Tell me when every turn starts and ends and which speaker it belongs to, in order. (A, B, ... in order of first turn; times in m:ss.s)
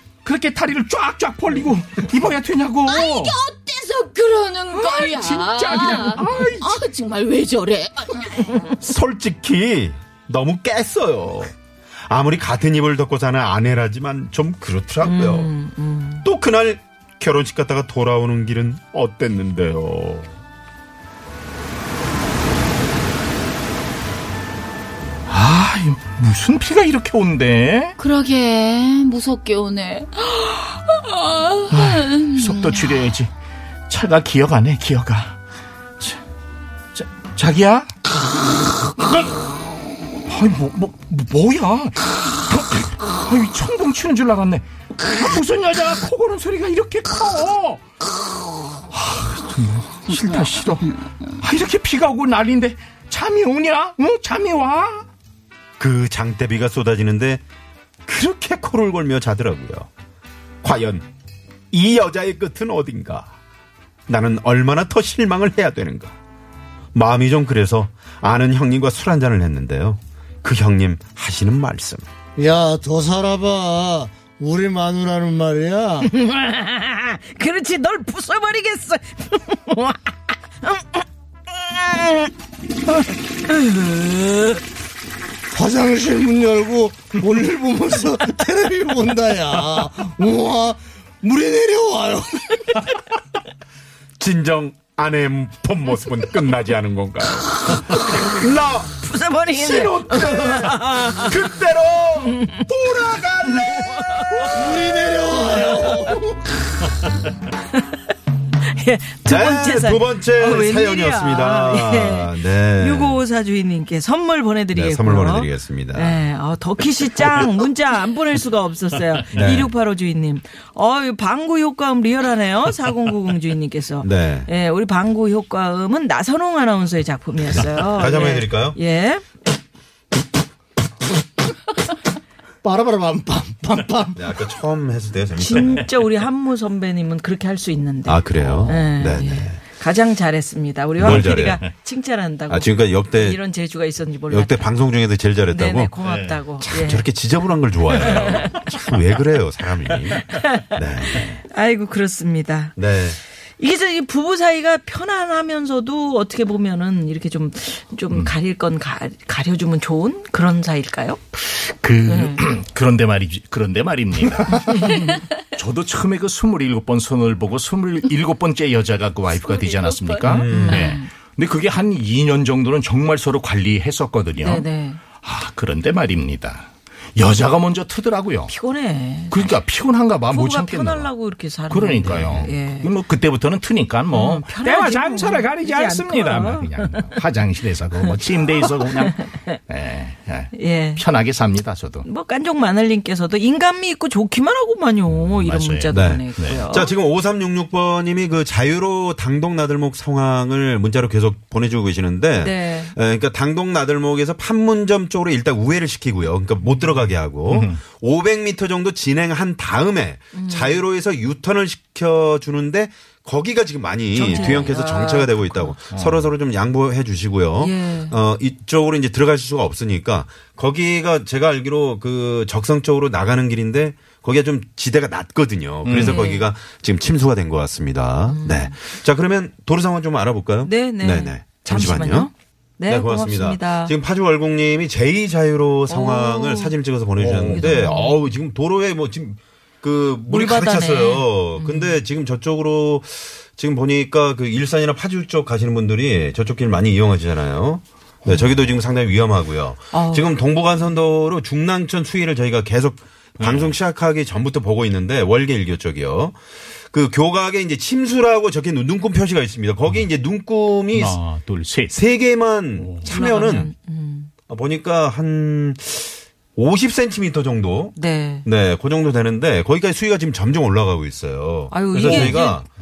0:00.2-0:03.4 A
0:02.8-0:08.5 B
0:04.7-0:06.8 A
0:08.8-0:11.5 C
0:12.1-0:15.5 C
0:15.0-0:16.2 D
0:16.2-0:20.3 C
0:25.3-0:28.0 A
0:28.0-0:32.8 B
0:31.7-0:33.3 A
0:33.9-0:35.4 A
0:36.9-0:37.9 A
0:39.0-0:39.2 A
0:40.3-0:47.8 A
0:48.9-0:55.1 A
0:55.8-0:57.4 C
0:58.0-0:59.9 C
1:00.6-1:01.1 C
1:01.7-1:03.3 C
1:04.1-1:06.2 C
1:06.9-1:12.0 C
1:12.4-1:16.1 E
1:16.0-1:22.3 D
1:23.5-1:24.6 D
1:25.5-1:32.6 E
1:34.2-1:38.9 C
1:39.0-1:41.4 D
1:39.5-1:40.7 C
1:41.2-1:43.9 C
1:42.2-1:42.6 D
1:43.7-1:44.7 D
1:44.4-1:45.0 A
1:44.6-1:46.2 E
1:45.6-1:46.2 D
1:48.7-2:09.2 D
1:49.2-1:53.2 C
1:54.7-1:56.2 C
1:59.3-1:59.7 C
2:04.0-2:04.5 C
2:07.5-2:08.8 C
2:12.6-2:14.2 E
2:14.2-2:15.9 C
2:15.4-2:24.7 D
2:18.0-2:19.6 C
2:18.4-2:18.8 A
2:21.0-2:21.6 C
2:21.0-2:21.5 A
2:22.5-2:23.4 C
2:24.3-2:25.9 C
2:25.5-2:27.1 D
2:26.0-2:26.4 A
2:26.6-2:31.4 C
2:27.9-2:28.6 D
2:30.3-2:30.7 D
2:31.5-2:32.8 D
2:32.8-2:33.2 C
2:33.6-2:41.2 D
2:41.4-2:58.5 A
2:42.0-2:42.4 D
2:44.8-2:45.2 D
2:49.6-2:50.1 B
2:50.2-2:50.9 C
2:50.4-2:51.1 D
2:54.4-2:55.0 D
2:58.5-2:59.6 D
2:59.3-3:01.1 A
3:00.3-3:02.9 D
3:01.7-3:12.0 A
3:04.1-3:07.0 D
3:08.5-3:09.4 D
3:10.5-3:11.1 D
3:12.0-3:16.9 D
3:15.1-3:16.6 A
3:15.9-3:52.3 C
3:22.4-3:22.9 D
3:27.5-3:27.8 A
3:30.3-3:30.8 D
3:34.1-3:35.7 D
3:35.9-3:36.3 A
3:37.6-3:38.1 D
3:45.8-3:46.2 A
3:45.9-3:46.5 D
3:48.3-3:48.8 D
3:50.6-3:53.9 D
3:52.9-4:16.4 C
3:55.9-3:58.2 D
4:00.3-4:02.0 D
4:09.9-4:10.3 D
4:13.4-4:13.7 A
4:16.9-4:21.2 C
4:20.9-4:22.0 A
4:21.9-4:23.7 C
4:22.8-4:23.1 A
4:23.0-4:24.3 D
4:24.5-4:32.7 C
4:27.9-4:28.4 D
4:31.7-4:32.6 D
4:32.0-4:32.4 A